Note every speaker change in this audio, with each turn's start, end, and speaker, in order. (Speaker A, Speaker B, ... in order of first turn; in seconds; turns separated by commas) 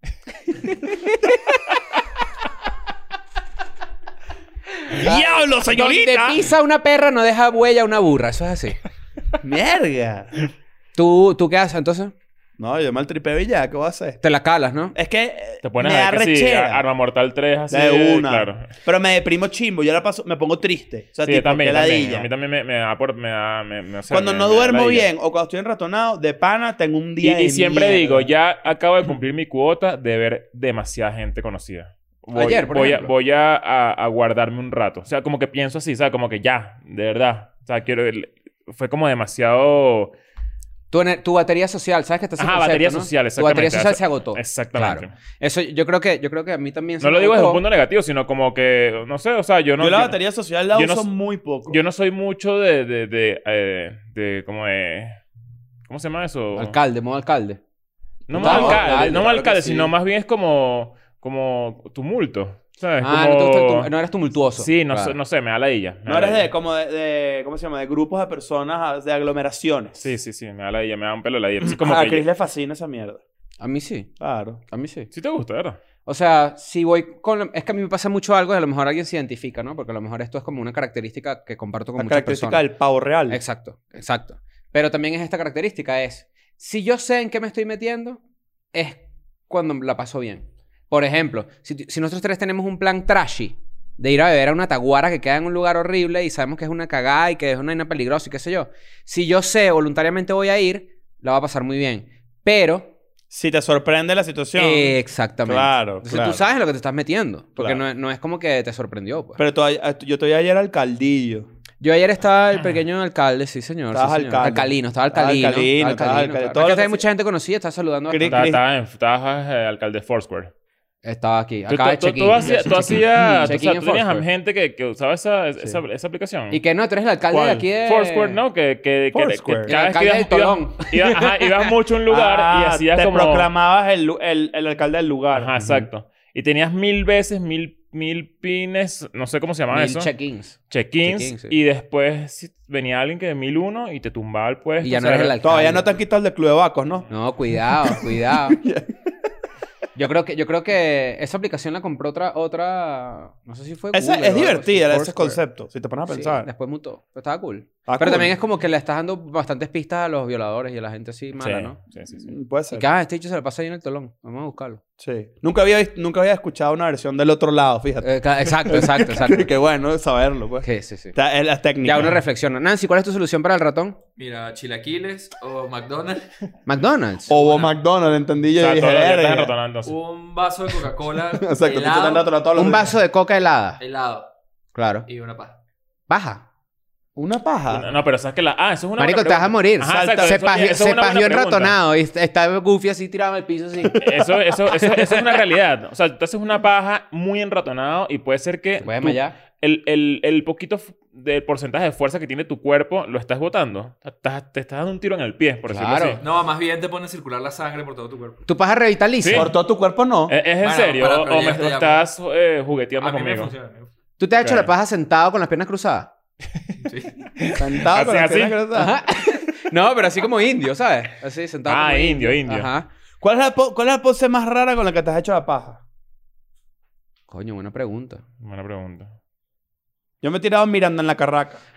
Speaker A: 0.5-1.4, Speaker A: 4.9-8.8, Speaker B: 4.9-6.5, Speaker B: 9.4-10.4, Speaker A: 10.9-12.1, Speaker B: 12.6-14.2, Speaker A: 14.2-14.9, Speaker B: 14.9-16.8, Speaker C: 15.6-18.7, Speaker B: 17.7-22.3, Speaker C: 21.2-25.1, Speaker B: 24.1-28.3, Speaker C: 27.2-40.1, Speaker A: 32.3-33.1, Speaker A: 40.9-47.6, Speaker C: 42.4-45.1, Speaker C: 47.0-50.2, Speaker B: 49.8-51.8, Speaker C: 50.7-51.1, Speaker C: 51.6-55.2, Speaker C: 55.9-56.8, Speaker A: 56.5-57.6, Speaker C: 58.3-63.9, Speaker B: 58.3-59.7, Speaker A: 58.3-59.9, Speaker A: 63.0-65.1, Speaker C: 64.5-66.5, Speaker B: 66.0-70.0, Speaker C: 70.0-72.2, Speaker B: 71.6-73.2, Speaker A: 73.6-74.1, Speaker B: 74.2-74.6, Speaker A: 74.7-75.1, Speaker C: 75.1-75.8, Speaker A: 76.0-82.7, Speaker B: 82.0-83.4, Speaker A: 83.3-88.2, Speaker A: 88.7-102.9, Speaker B: 103.3-106.4, Speaker A: 104.5-109.4, Speaker B: 109.4-111.5, Speaker A: 111.8-118.5, Speaker B: 113.9-117.0, Speaker B: 118.1-118.6, Speaker C: 118.3-120.5, Speaker A: 121.0-124.2, Speaker C: 121.7-126.6, Speaker A: 126.5-128.4, Speaker C: 127.3-133.5, Speaker B: 129.1-129.7, Speaker A: 129.7-131.7, Speaker B: 132.1-135.5, Speaker C: 135.3-140.1, Speaker A: 135.6-135.8, Speaker A: 139.7-141.5, Speaker C: 140.7-145.3, Speaker A: 144.8-145.9, Speaker B: 145.4-147.1, Speaker A: 147.1-148.6, Speaker B: 147.7-148.9, Speaker A: 149.9-155.4, Speaker B: 153.9-156.5, Speaker A: 156.1-161.8, Speaker B: 157.9-158.3, Speaker C: 161.4-162.3, Speaker B: 162.3-162.9, Speaker A: 162.7-164.8, Speaker B: 165.0-172.2, Speaker A: 168.0-169.5, Speaker A: 170.6-171.2, Speaker A: 171.8-174.0, Speaker D: 174.2-176.3, Speaker A: 176.7-177.4, Speaker B: 177.3-179.5, Speaker D: 177.3-177.7, Speaker C: 178.6-179.9, Speaker D: 179.8-182.3, Speaker B: 181.4-182.9, Speaker A: 182.5-183.8, Speaker D: 183.8-184.3, Speaker A: 184.7-185.1, Speaker D: 185.1-185.5, Speaker A: 186.1-186.4, Speaker B: 187.2-187.9, Speaker C: 187.7-191.7, Speaker A: 189.0-194.0, Speaker B: 189.9-190.4, Speaker B: 193.9-194.2, Speaker C: 194.0-206.2, Speaker A: 194.8-195.3, Speaker A: 198.8-199.3, Speaker A: 205.7-206.2, Speaker D: 206.2-208.4, Speaker A: 208.4-209.5, Speaker C: 209.2-209.5, Speaker B: 209.3-210.3, Speaker C: 210.3-213.5, Speaker D: 210.6-212.0, Speaker D: 213.0-213.9, Speaker A: 214.2-216.1, Speaker C: 214.4-214.7, Speaker D: 216.8-217.2, Speaker C: 217.4-218.6, Speaker B: 217.5-218.9, Speaker A: 218.7-222.9, Speaker C: 221.7-222.7, Speaker B: 223.2-225.8, Speaker A: 227.3-228.2, Speaker C: 228.4-229.1, Speaker B: 230.2-231.6